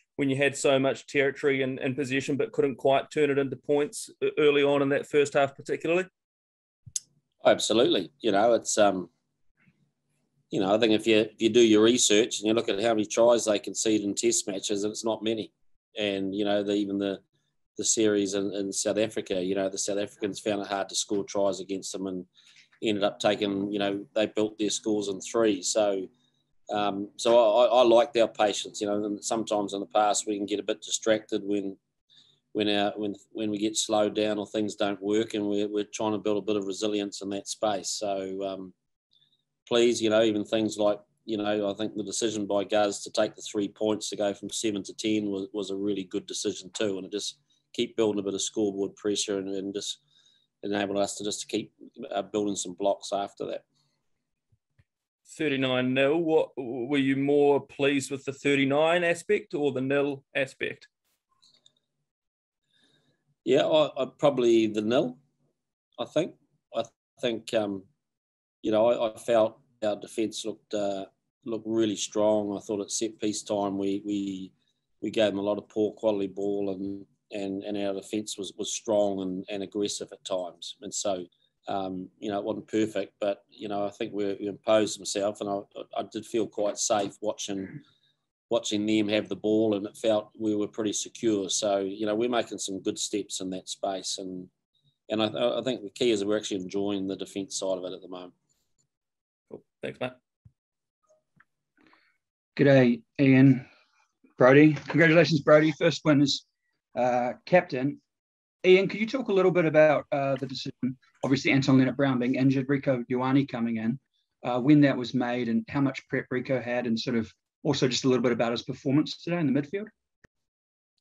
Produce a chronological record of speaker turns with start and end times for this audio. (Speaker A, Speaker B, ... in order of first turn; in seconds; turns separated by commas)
Speaker A: 0.2-6.1, Speaker B: 7.4-9.1, Speaker B: 10.5-17.2, Speaker B: 17.8-22.3, Speaker B: 22.8-26.1, Speaker B: 26.7-31.8, Speaker B: 32.5-38.7, Speaker B: 39.7-50.0, Speaker B: 50.6-53.6, Speaker A: 55.3-60.9, Speaker B: 63.5-65.2, Speaker B: 66.0-67.8, Speaker B: 68.6-87.8, Speaker B: 88.5-94.5, Speaker B: 95.1-98.3, Speaker A: 99.5-100.2, Speaker C: 102.6-103.7, Speaker C: 104.4-106.4, Speaker C: 107.0-108.0, Speaker C: 108.6-119.9